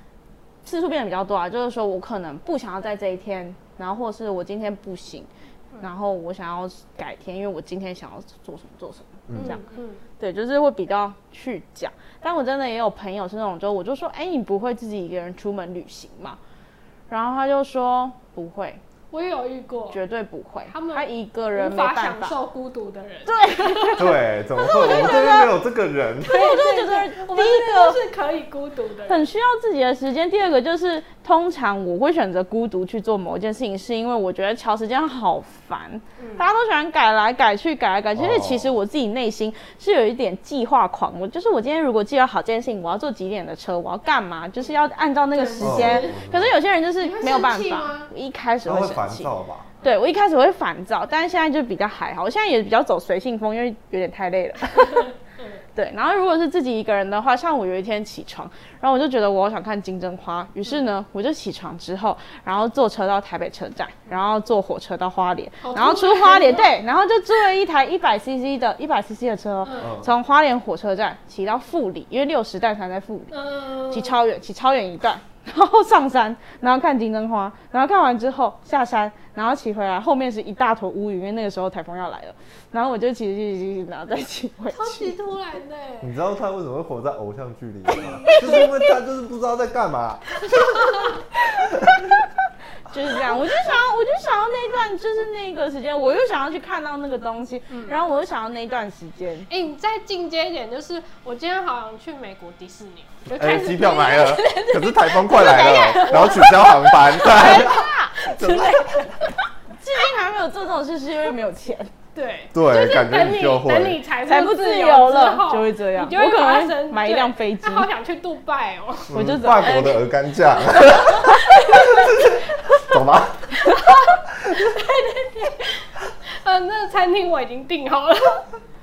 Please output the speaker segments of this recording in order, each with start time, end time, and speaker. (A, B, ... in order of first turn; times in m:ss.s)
0:00.6-0:05.3 A
0:05.8-0:09.6 A
0:09.3-0:09.6 B
0:09.3-0:10.0 C
0:10.2-0:16.4 A
0:17.1-0:18.8 A
0:19.1-0:20.0 C
0:19.9-0:22.3 A
0:20.7-0:25.5 C
0:23.2-0:24.2 A
0:24.0-0:26.3 B
0:24.8-0:25.4 A
0:26.2-0:29.3 C
0:26.2-0:28.0 A
0:29.1-0:49.3 A
0:36.2-0:36.4 C
0:38.2-0:38.7 B
0:45.3-0:46.2 C
0:45.6-0:46.5 B
0:47.0-0:48.1 C
0:48.6-0:49.7 B
0:49.8-0:55.1 A
0:55.4-0:55.6 C
0:55.7-1:13.3 A
1:05.6-1:06.7 C
1:09.6-1:09.9 C
1:13.3-1:14.2 C
1:13.9-1:25.1 A
1:24.7-1:26.1 C
1:26.0-1:30.7 B
1:28.0-1:28.6 A
1:28.2-1:28.7 C
1:30.5-1:31.2 C
1:31.7-1:32.2 B
1:32.9-1:39.5 A
1:37.7-1:38.0 C
1:39.5-1:49.4 C
1:43.4-1:49.0 B
1:45.4-1:46.4 A
1:47.4-1:48.1 A
1:49.8-1:51.9 A
1:52.1-1:59.9 C
1:52.5-1:54.0 B
1:54.2-1:57.9 A
1:59.1-2:03.6 B
1:59.1-2:00.0 A
2:00.8-2:02.3 C
2:03.6-2:08.5 C